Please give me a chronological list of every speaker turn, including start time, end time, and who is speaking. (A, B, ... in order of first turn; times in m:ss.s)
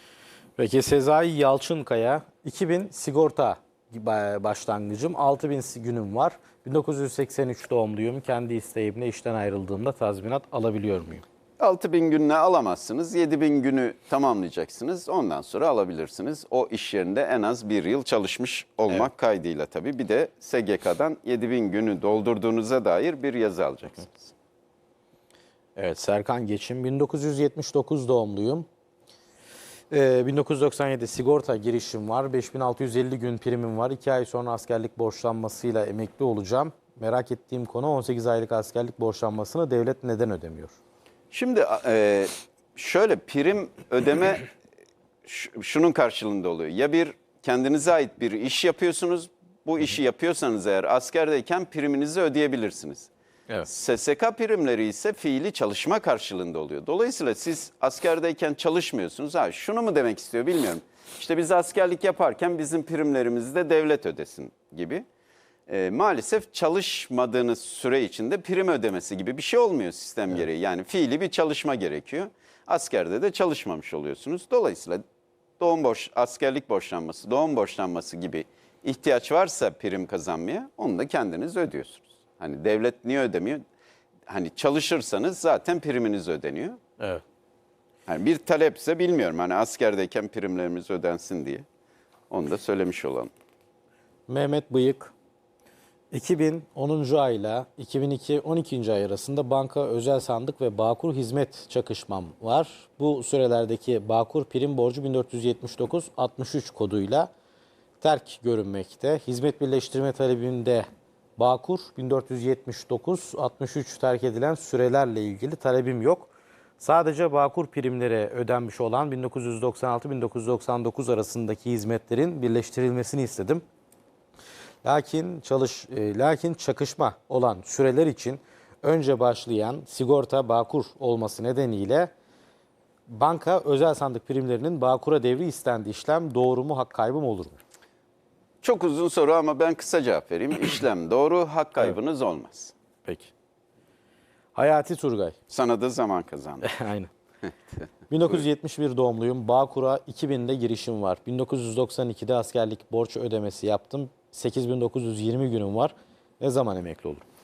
0:00.6-0:11.2 A
0:11.6-0:24.3 B
0:25.8-0:28.7 A
0:29.9-0:40.7 A
0:41.3-0:44.5 B
0:45.2-0:53.1 B
0:53.6-1:05.0 B
1:05.7-1:15.0 B
1:15.6-1:23.6 B
1:24.3-1:26.8 B
1:28.1-1:31.6 B
1:32.3-1:33.3 B
1:34.3-1:35.1 A
1:36.1-1:47.3 A
1:48.0-2:03.6 A
2:04.8-2:12.1 A
2:13.1-2:17.6 A
2:18.6-2:22.7 B
2:23.0-2:23.3 A
2:24.5-2:25.4 A
2:25.5-2:26.7 B
2:26.6-2:27.1 A
2:28.1-2:37.2 A